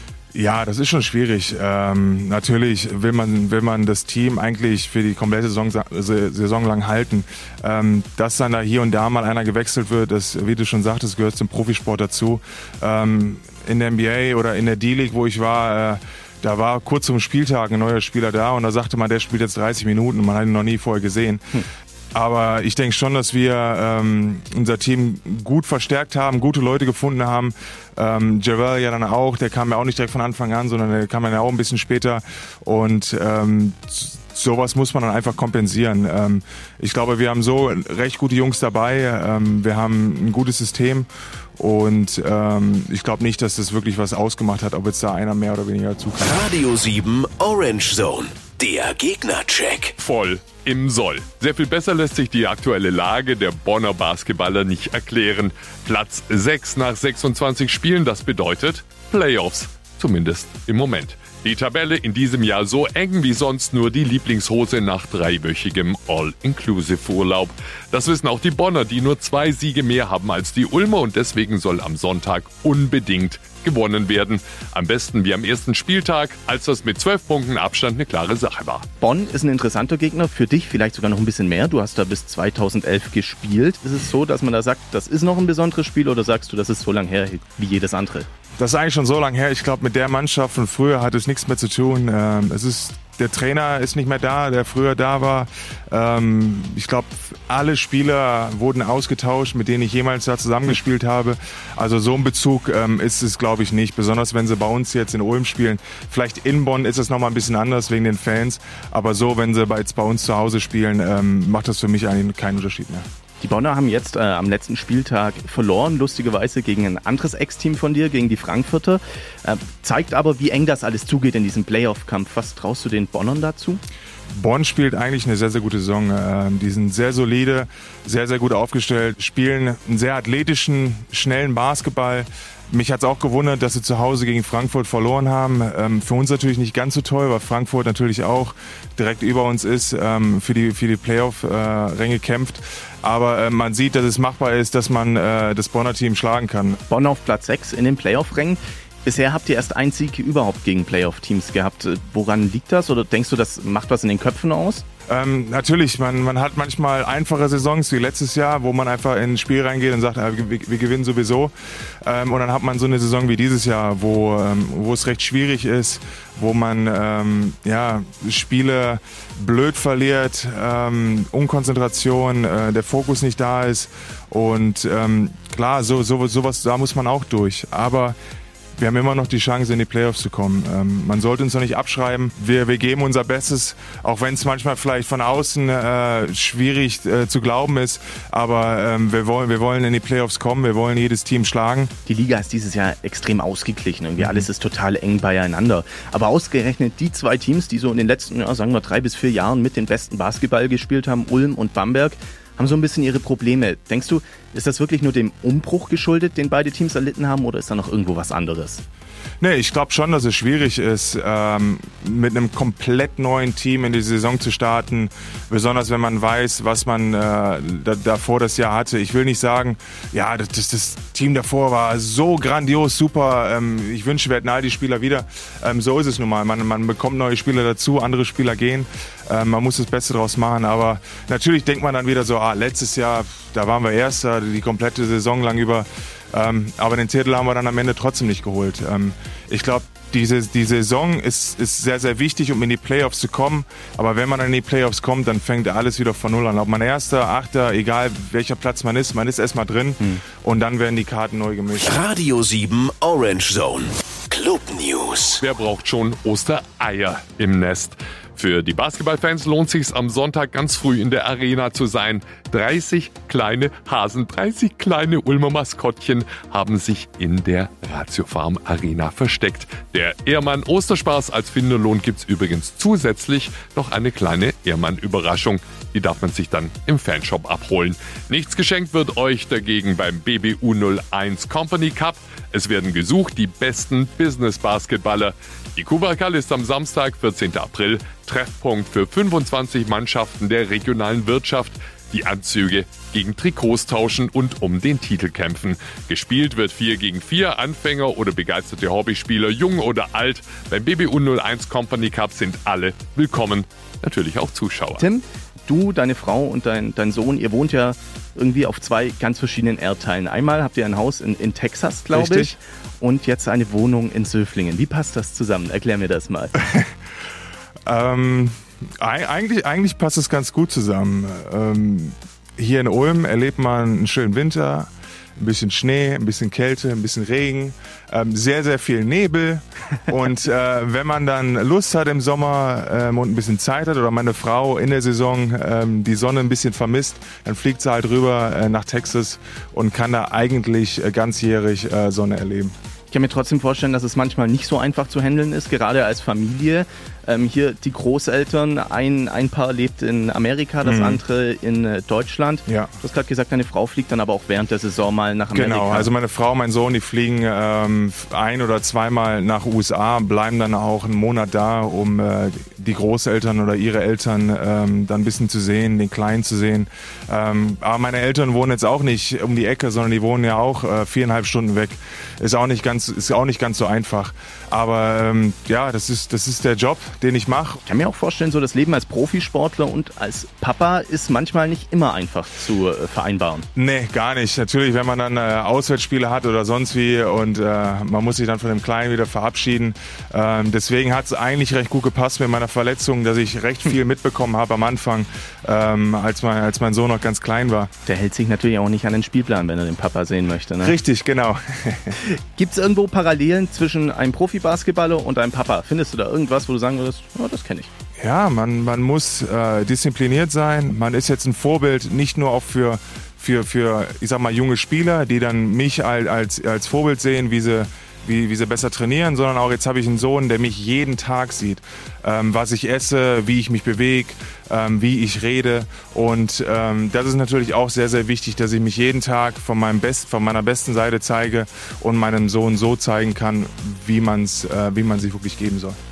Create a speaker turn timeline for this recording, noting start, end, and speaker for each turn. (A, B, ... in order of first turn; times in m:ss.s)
0:00.3-0:21.6 A
0:22.1-0:46.5 A
0:46.2-0:49.9 B
0:50.0-1:18.8 C
1:19.0-1:28.3 D
1:28.6-1:53.0 A
1:53.4-2:03.8 D
2:04.3-2:26.8 A
2:26.9-2:34.8 D
2:35.1-2:41.5 A
2:42.0-2:58.2 A
2:58.8-3:11.9 A
3:12.0-3:28.8 D
3:14.2-3:14.4 A
3:29.4-4:12.0 A
4:11.8-4:15.4 B
4:15.4-5:05.0 C
5:05.0-5:16.6 D
5:12.1-5:12.6 A
5:17.9-5:42.7 A
5:43.1-5:56.1 D
5:50.8-5:51.2 A
5:52.7-5:52.9 A
5:55.5-6:17.8 A
6:17.8-6:23.7 D
6:23.7-6:37.9 A
6:38.0-6:41.0 D
6:40.8-6:42.2 A
6:42.2-6:47.9 D
6:48.2-7:16.0 A